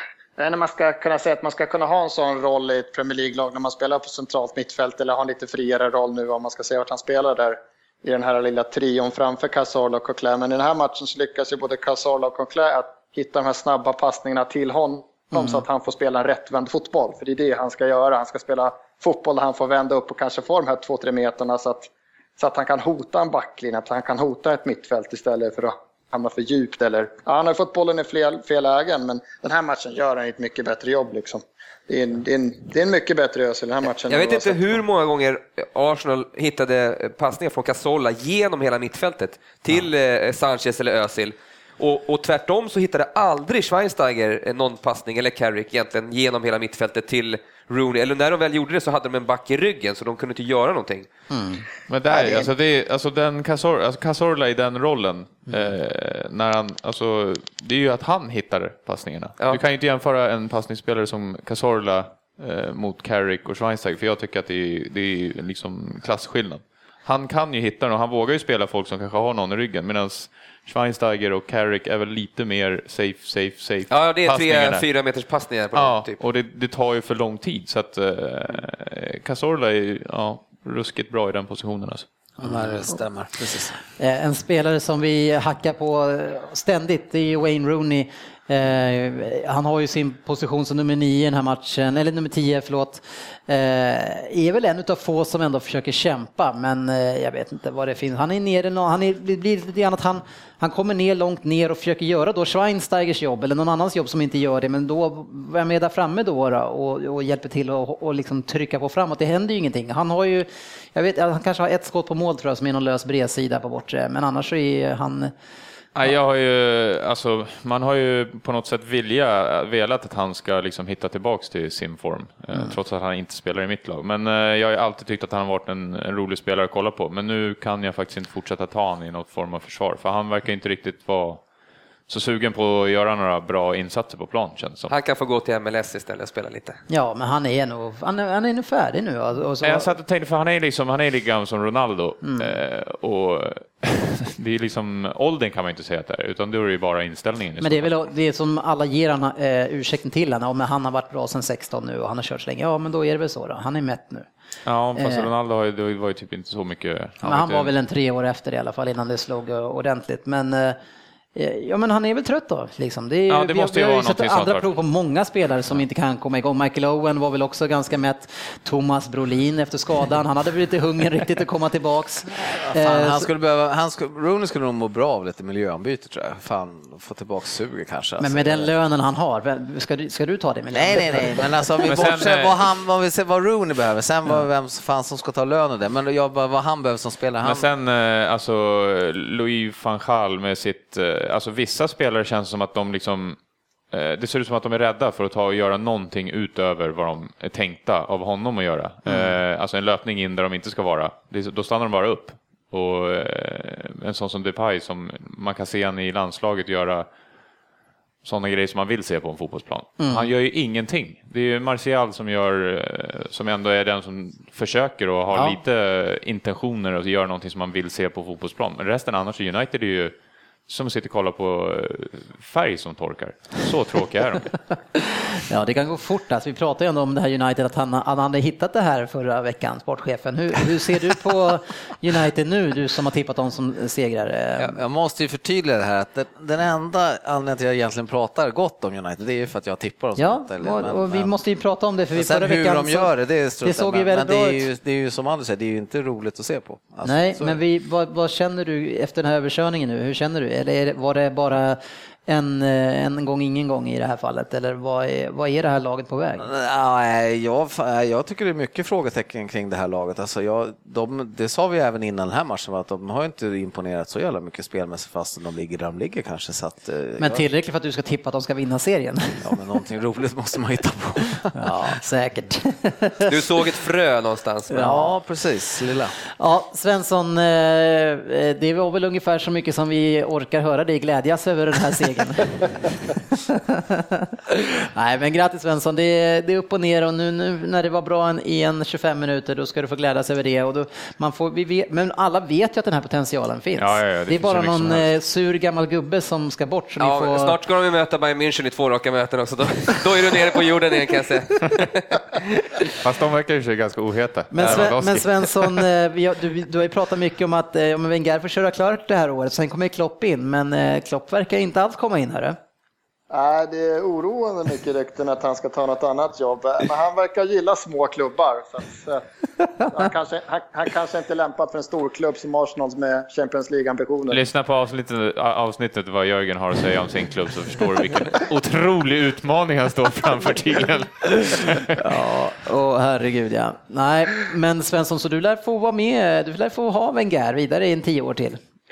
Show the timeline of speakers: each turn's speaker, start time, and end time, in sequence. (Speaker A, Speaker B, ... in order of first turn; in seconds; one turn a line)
Speaker A: 0.4-34.8
Speaker B: 34.1-51.1
Speaker C: 51.3-51.6
Speaker D: 51.9-74.8
Speaker B: 52.1-52.5
Speaker B: 73.9-76.2
Speaker D: 75.7-82.1
Speaker E: 82.4-83.7
Speaker C: 84.0-115.3
Speaker D: 115.9-131.4
Speaker D: 132.1-134.9
Speaker B: 134.9-136.8
Speaker C: 136.9-139.9
Speaker D: 139.6-147.9
Speaker C: 142.2-142.5
Speaker C: 147.6-154.3
Speaker D: 154.7-157.7
Speaker C: 154.9-155.3
Speaker C: 157.2-160.8
Speaker C: 161.3-173.3
Speaker D: 163.3-164.7
Speaker E: 172.5-178.7
Speaker C: 178.2-181.5
Speaker E: 180.7-187.7
Speaker D: 181.8-182.5
Speaker D: 187.4-193.4
Speaker D: 193.9-207.1
Speaker C: 199.1-199.3
Speaker D: 208.2-220.2
Speaker C: 210.0-210.3
Speaker C: 215.3-215.6
Speaker D: 220.7-224.6
Speaker C: 224.9-234.8
Speaker E: 234.6-241.3
Speaker C: 240.2-243.1
Speaker E: 242.1-247.6
Speaker C: 243.6-244.7
Speaker C: 247.0-256.5
Speaker E: 256.4-267.4
Speaker C: 267.2-269.4
Speaker E: 269.4-271.6
Speaker C: 271.5-273.3
Speaker B: 273.3-274.9
Speaker C: 274.7-275.1
Speaker E: 274.8-276.1
Speaker C: 276.4-282.8
Speaker C: 283.7-297.6
Speaker D: 293.8-295.1
Speaker B: 297.0-302.5
Speaker D: 303.0-305.8
Speaker C: 304.5-312.6
Speaker A: 313.3-319.2
Speaker A: 319.9-324.4
Speaker D: 324.3-332.0
Speaker C: 331.9-338.6